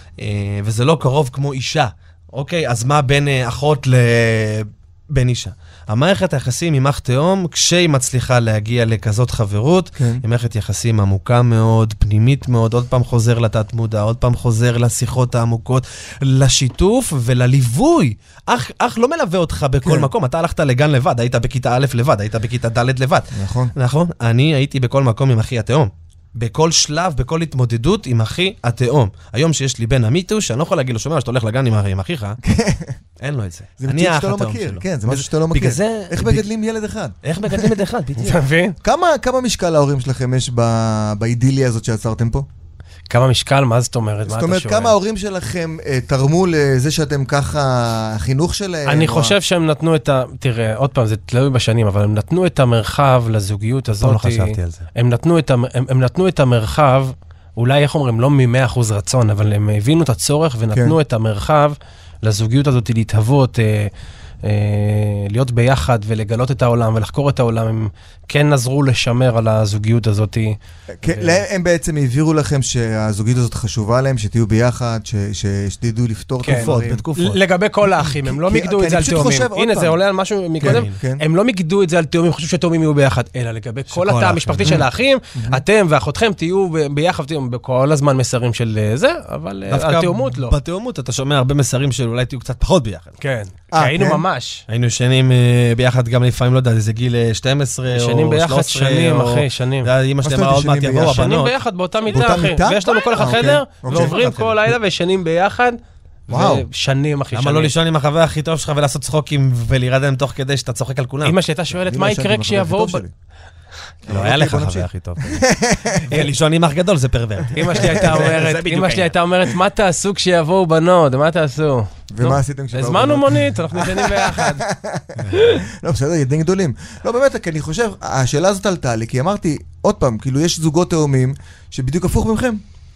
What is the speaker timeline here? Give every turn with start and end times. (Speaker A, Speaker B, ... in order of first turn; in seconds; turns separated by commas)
Speaker A: 0.2-32.4, Speaker B: 10.0-10.2, Speaker B: 19.8-20.1, Speaker B: 23.3-23.7, Speaker B: 32.4-33.0, Speaker A: 33.2-36.5, Speaker B: 33.8-37.8, Speaker A: 37.2-38.4, Speaker C: 38.2-38.8, Speaker B: 38.8-42.5, Speaker C: 43.1-45.0, Speaker B: 44.2-49.4, Speaker C: 48.9-63.9, Speaker A: 54.0-54.9, Speaker B: 60.7-61.0, Speaker C: 64.4-71.4, Speaker B: 71.0-77.0, Speaker C: 76.4-90.5, Speaker A: 76.5-77.4, Speaker B: 78.0-80.0, Speaker B: 80.6-81.2, Speaker A: 80.6-81.0, Speaker A: 83.9-84.8, Speaker B: 85.3-85.6, Speaker A: 89.7-93.2, Speaker C: 93.2-94.6, Speaker B: 93.7-94.2, Speaker A: 94.7-101.6, Speaker C: 97.9-99.9, Speaker B: 100.2-101.2, Speaker C: 101.0-105.8, Speaker B: 102.0-104.7, Speaker A: 103.8-104.3, Speaker B: 106.3-106.7, Speaker C: 106.3-107.7, Speaker A: 107.3-111.4, Speaker C: 111.2-113.0, Speaker B: 111.7-113.1, Speaker B: 114.0-116.2, Speaker A: 114.1-119.1, Speaker C: 117.5-124.7, Speaker B: 117.8-118.4, Speaker B: 122.1-132.6, Speaker A: 125.2-125.5, Speaker C: 125.3-125.6